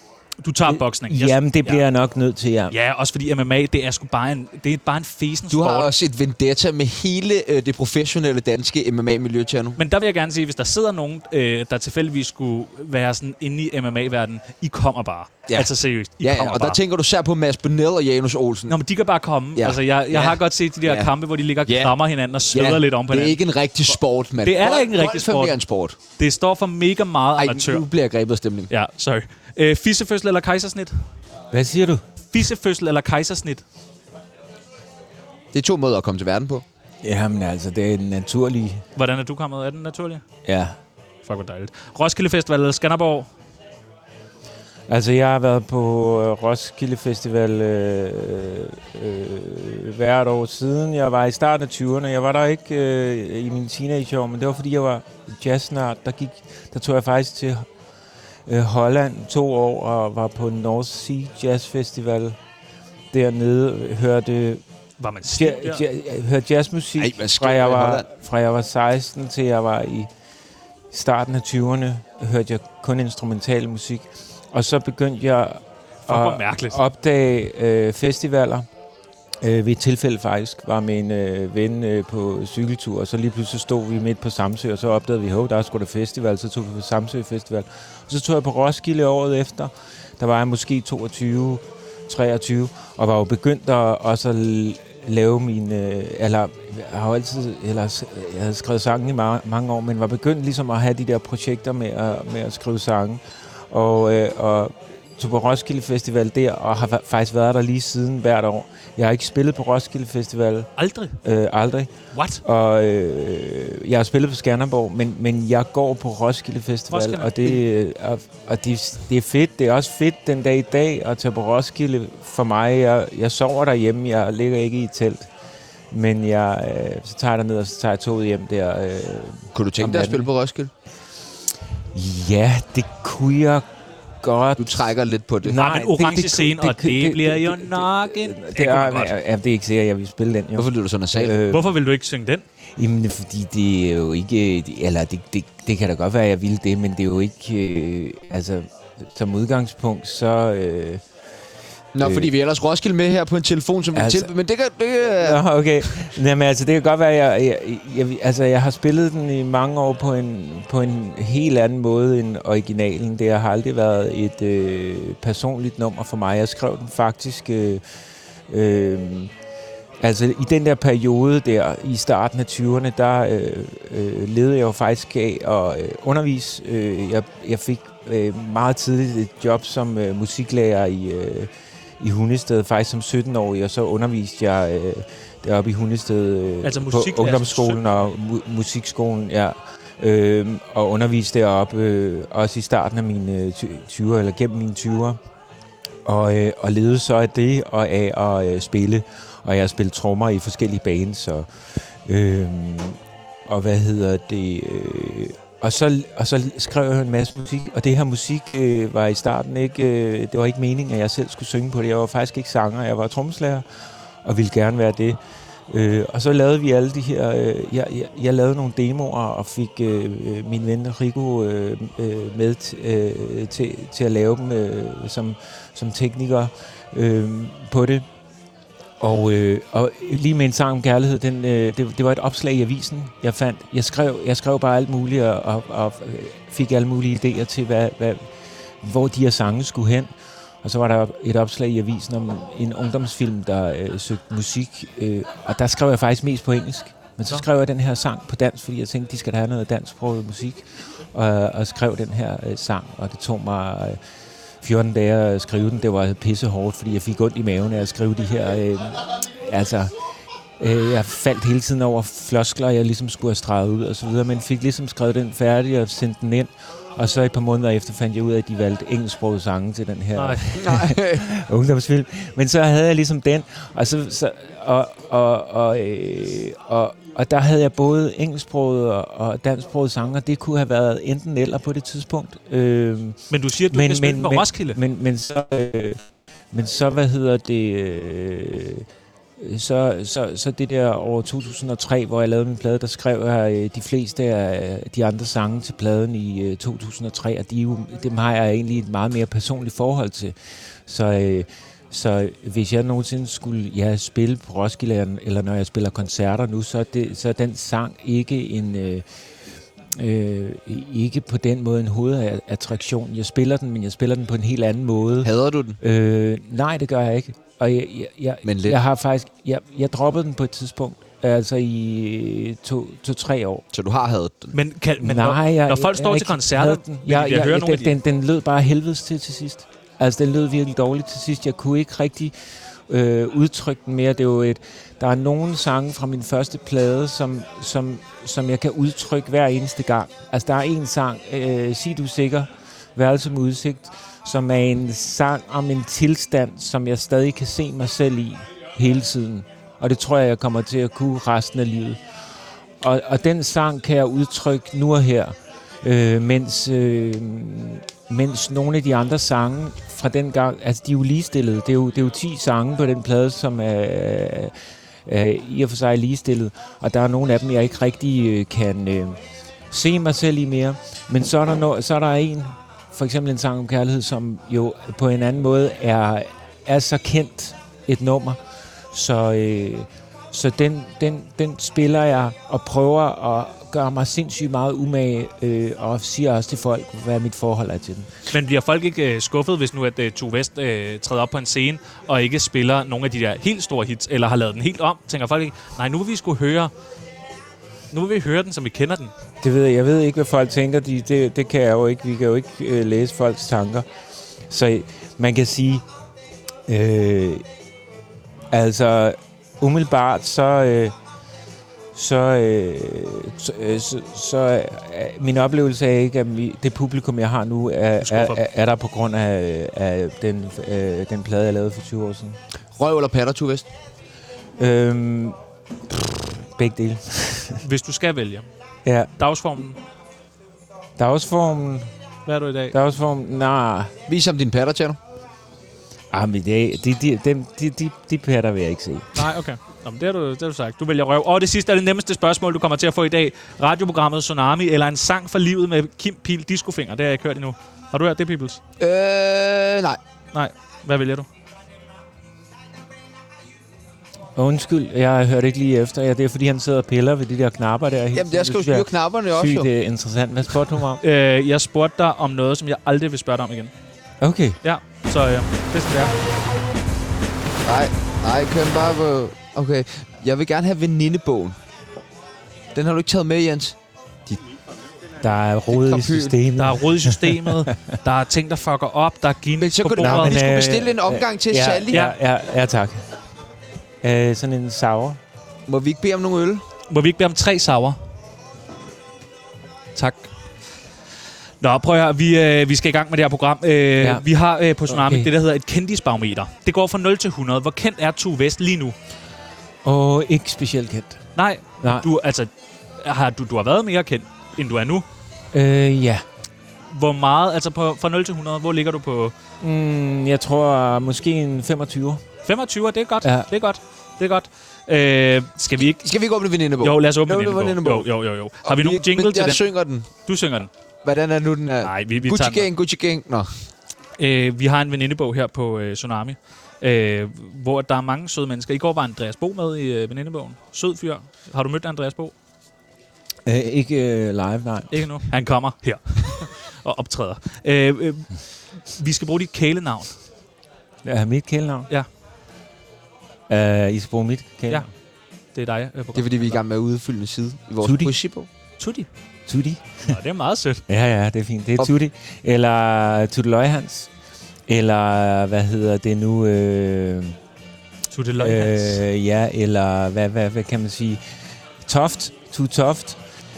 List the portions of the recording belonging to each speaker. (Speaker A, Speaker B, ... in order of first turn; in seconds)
Speaker A: 0.4-1.8, 2.7-5.9, 9.8-16.8, 18.7-23.4, 24.4-25.6, 26.2-27.9, 28.7-31.0, 32.3-33.6, 39.0-40.2, 41.2-43.3, 65.0-65.8, 76.1-76.8, 110.8-111.2, 112.1-112.4, 116.9-117.6, 135.6-139.2, 141.5-142.4, 186.6-187.8, 270.1-270.5, 283.3-284.8, 324.5-327.9, 388.3-396.7, 397.9-399.1, 418.0-418.4, 427.6-428.5, 429.2-429.8, 432.2-432.7, 439.1-448.6, 450.3-451.3, 461.0-463.7, 464.6-466.1, 476.6-480.4, 481.9-482.2, 486.9-488.0, 489.9-490.3, 491.6-498.9, 501.4-502.5, 503.0-505.1, 506.9-509.3, 512.4-516.1, 516.8-520.7, 521.8-522.7, 524.2-532.3, 534.9-540.1, 545.5-546.6, 548.8-549.1, 550.0-550.8, 558.1-559.0
Speaker B: 0.7-2.7, 31.5-32.0, 37.0-38.9, 40.4-40.8, 44.9-57.7, 58.5-62.4, 63.1-64.6, 65.2-70.1, 70.9-78.7, 79.4-110.7, 111.2-111.9, 112.4-125.3, 125.9-130.3, 131.9-133.7, 134.2-141.7, 142.8-151.0, 152.0-152.3, 153.9-154.3, 155.2-167.8, 168.5-169.3, 170.0-195.2, 196.0-213.6, 214.2-215.2, 215.7-228.1, 229.0-238.3, 238.8-240.1, 240.6-254.0, 254.6-259.9, 260.6-286.0, 286.5-288.9, 289.4-300.3, 300.9-309.0, 309.9-323.6, 325.0-332.3, 332.9-352.0, 352.8-364.5, 365.1-369.2, 369.7-378.4, 378.9-388.1, 399.4-403.9, 404.5-405.9, 406.7-407.4, 408.5-410.9, 411.9-422.4, 424.6-425.4, 425.9-427.6, 431.0-431.9, 432.7-433.9, 436.1-439.2, 454.4-461.0, 464.2-464.6, 475.2-477.7, 480.0-483.0, 484.0-485.2, 494.9-495.3, 499.9-501.2, 501.8-502.1, 505.5-506.2, 509.6-512.2, 513.2-513.5, 533.5-535.0, 541.0-541.9, 543.5-544.9, 547.8-548.1, 549.5-550.1, 550.9-554.1, 554.7-557.4, 558.4-561.2, 561.9-563.2
Speaker C: 5.5-9.8, 15.5-18.8, 19.6-21.1, 21.6-21.9, 22.5-26.0, 27.4-28.7, 35.5-36.6, 67.0-68.1, 129.5-130.7, 134.6-135.6, 140.6-141.4, 151.9-155.4, 270.6-271.3, 315.2-315.8, 318.4-318.8, 323.7-324.5, 422.7-423.7, 434.1-435.0, 448.8-450.0, 458.1-459.7, 467.6-471.6, 472.7-474.4, 475.7-476.4, 479.6-482.0, 485.7-486.6, 515.8-518.1, 518.6-520.1, 521.0-523.5, 546.1-548.5